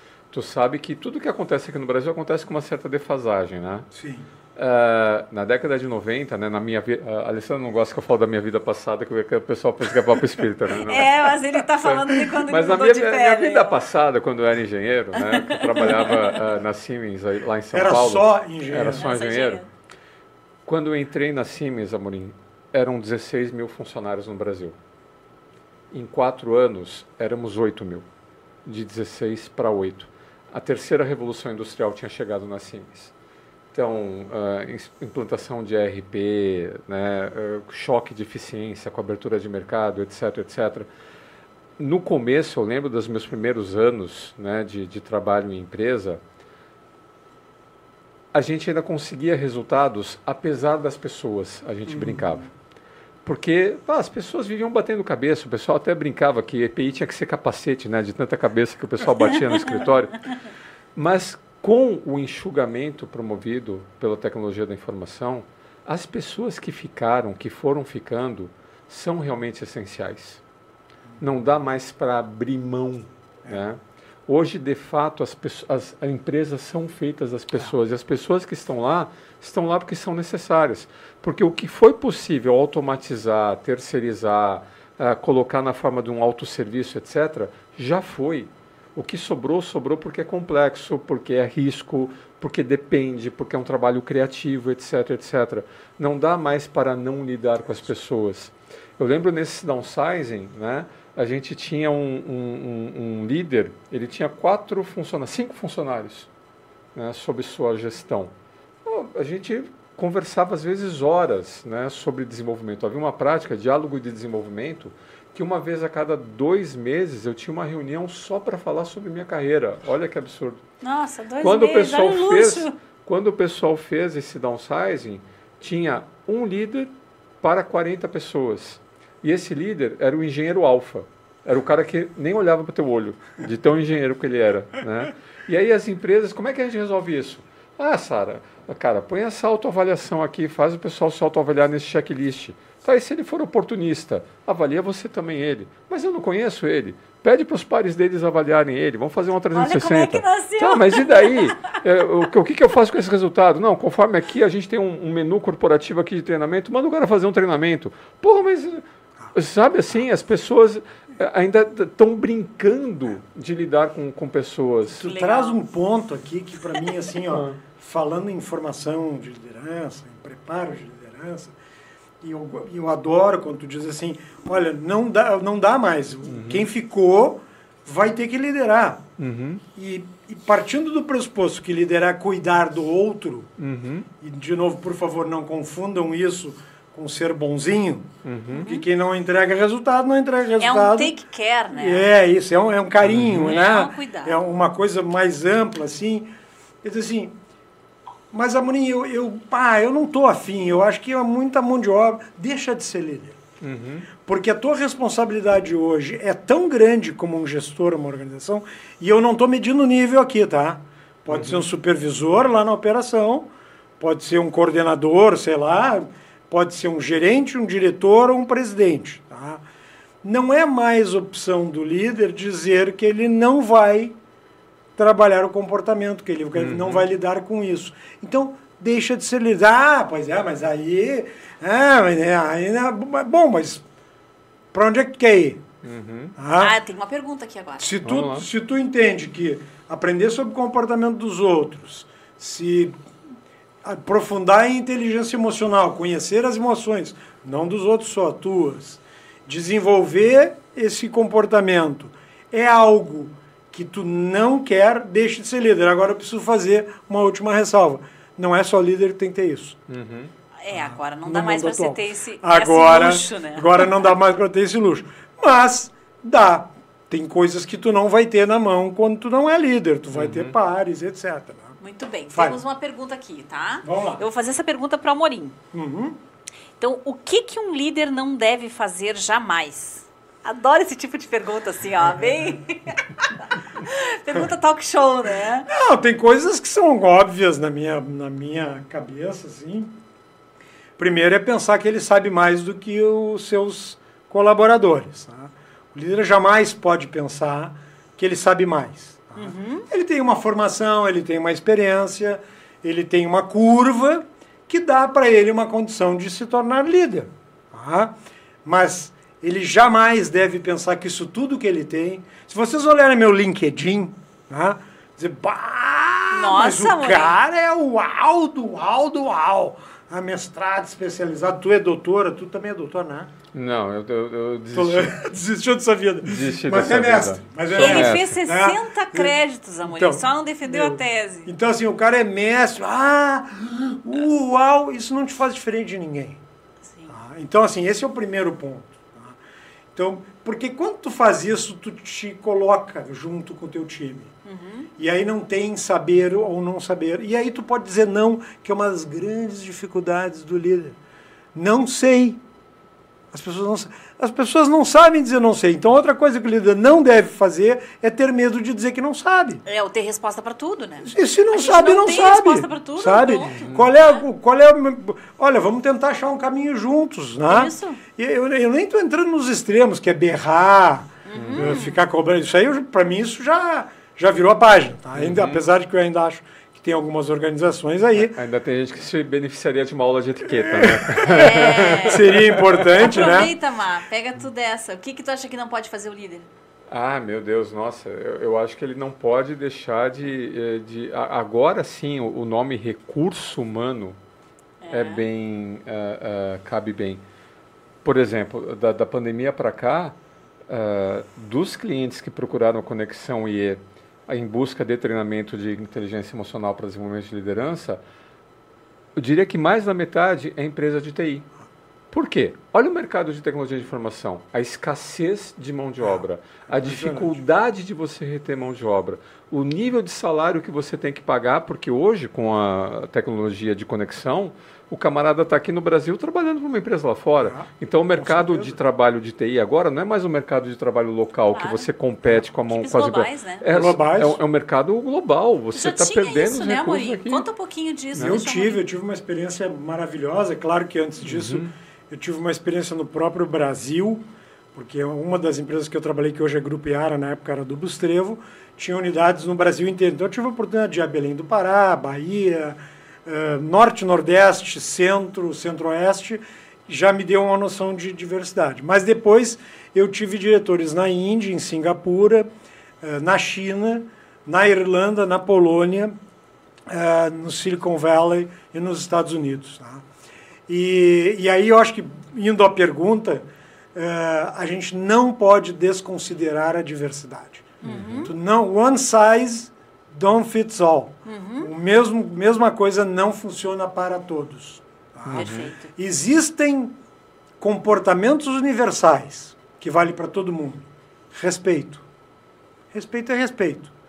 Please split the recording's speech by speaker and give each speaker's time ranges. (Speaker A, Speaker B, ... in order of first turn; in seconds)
Speaker A: 0.3-3.9, 4.6-11.3, 11.8-19.6, 20.7-24.8, 25.9-28.1, 28.6-33.1, 33.7-40.9, 41.8-46.2, 48.3-52.5, 53.2-60.3, 61.0-70.4, 71.2-106.3, 107.0-108.3, 108.8-120.6, 121.4-165.1, 167.3-167.6, 176.3-176.7, 179.2-179.6, 183.6-184.1, 188.2-188.7, 193.0-193.6, 203.6-204.1, 211.3-211.7, 226.6-227.1, 235.8-236.4, 238.1-238.5, 259.9-260.3, 270.1-270.6, 323.5-325.2, 326.2-328.4, 363.5-363.9, 371.4-371.8, 375.1-375.6, 378.2-383.0, 386.9-394.2, 394.9-397.2, 398.0-400.2, 400.7-408.0, 409.2-411.5, 412.1-437.5, 441.2-441.7, 477.8-478.3, 485.3-485.6
Speaker B: 3.9-4.3, 17.7-19.1, 51.9-52.4, 165.0-171.6, 172.2-179.1, 179.8-183.5, 184.2-191.1, 191.7-196.3, 196.8-197.4, 198.3-203.4, 204.2-219.6, 220.2-224.2, 225.0-233.8, 234.7-235.6, 236.4-236.8, 237.8-242.9, 243.8-259.8, 260.7-271.8, 272.3-272.6, 273.8-274.2, 275.7-276.2, 285.7-289.9, 291.0-323.3, 324.7-336.4, 337.1-339.4, 339.9-344.3, 345.0-351.0, 351.6-352.4, 353.3-359.6, 361.0-378.4, 380.6-383.5, 416.0-417.4, 427.4-428.8, 433.7-434.4, 438.2-462.5, 463.0-466.1, 466.9-470.1, 470.7-487.0, 487.6-492.1, 492.9-493.9
Speaker C: 10.8-13.8, 15.2-16.4, 18.9-19.7, 120.8-122.7, 149.5-151.5, 165.0-165.6, 188.5-188.8, 190.6-192.1, 193.5-194.4, 236.6-237.9, 260.6-264.1, 271.8-275.6, 276.8-285.7, 299.4-299.9, 316.3-317.4, 327.8-331.5, 344.4-344.9, 359.7-364.2, 367.5-368.0, 371.3-372.0, 381.2-382.3, 382.9-386.5, 394.8-395.2, 431.5-431.9, 432.7-433.6, 435.8-438.8, 477.8-478.3, 481.2-481.7, 485.3-485.9